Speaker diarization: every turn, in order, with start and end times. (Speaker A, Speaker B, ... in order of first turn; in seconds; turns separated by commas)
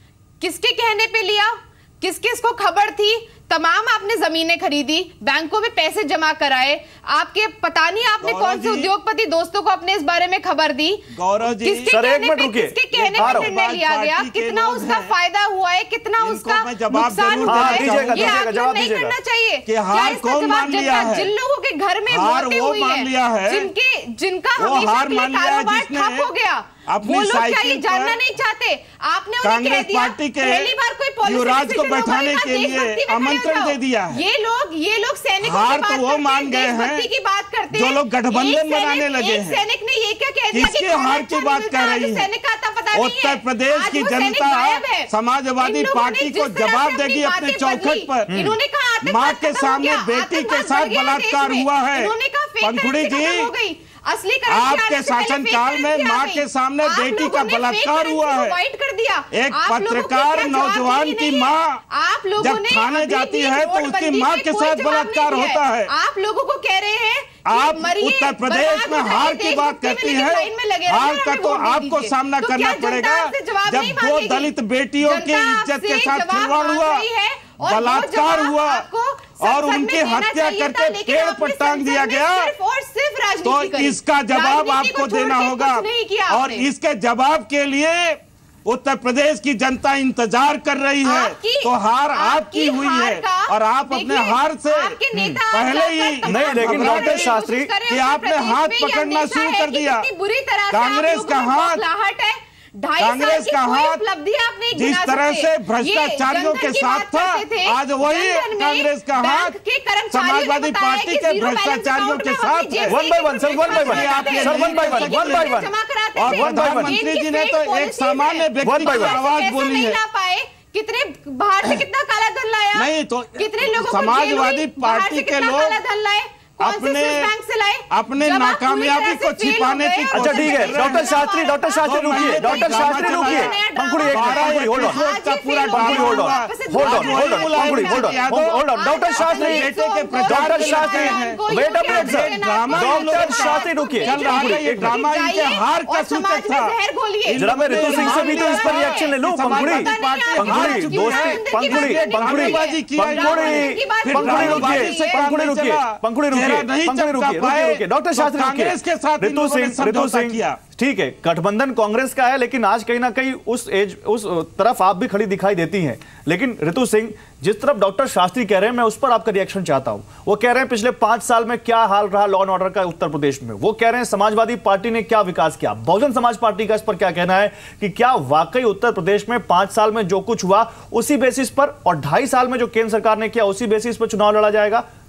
Speaker A: 0.4-74.5, Speaker B: 8.2-8.9, Speaker B: 11.1-11.9, Speaker C: 11.8-13.5, Speaker B: 12.9-15.1, Speaker B: 16.2-18.4, Speaker C: 17.4-19.1, Speaker B: 19.7-21.3, Speaker B: 22.1-23.7, Speaker B: 24.6-26.3, Speaker B: 26.9-28.2, Speaker B: 29.4-30.7, Speaker B: 31.2-34.2, Speaker B: 35.4-37.0, Speaker B: 37.7-39.6, Speaker B: 40.5-42.3, Speaker B: 42.9-53.5, Speaker C: 48.3-48.6, Speaker B: 54.5-58.5, Speaker B: 59.3-61.8, Speaker B: 62.4-65.9, Speaker B: 67.5-77.0, Speaker A: 75.0-86.7, Speaker B: 77.6-78.8, Speaker B: 79.4-82.5, Speaker B: 83.4-95.0, Speaker A: 91.0-155.2, Speaker C: 95.1-95.4, Speaker B: 95.5-100.1, Speaker C: 96.2-97.7, Speaker B: 100.7-101.8, Speaker B: 103.0-104.0, Speaker B: 104.7-109.5, Speaker B: 110.1-120.0, Speaker C: 112.9-115.7, Speaker C: 116.2-116.9, Speaker C: 118.6-119.2, Speaker B: 122.7-125.8, Speaker B: 126.6-127.3, Speaker B: 127.9-131.3, Speaker C: 130.1-135.0, Speaker B: 131.8-138.6, Speaker C: 135.7-139.7, Speaker B: 139.2-146.7, Speaker C: 140.2-144.9, Speaker B: 147.2-160.6, Speaker C: 147.3-184.8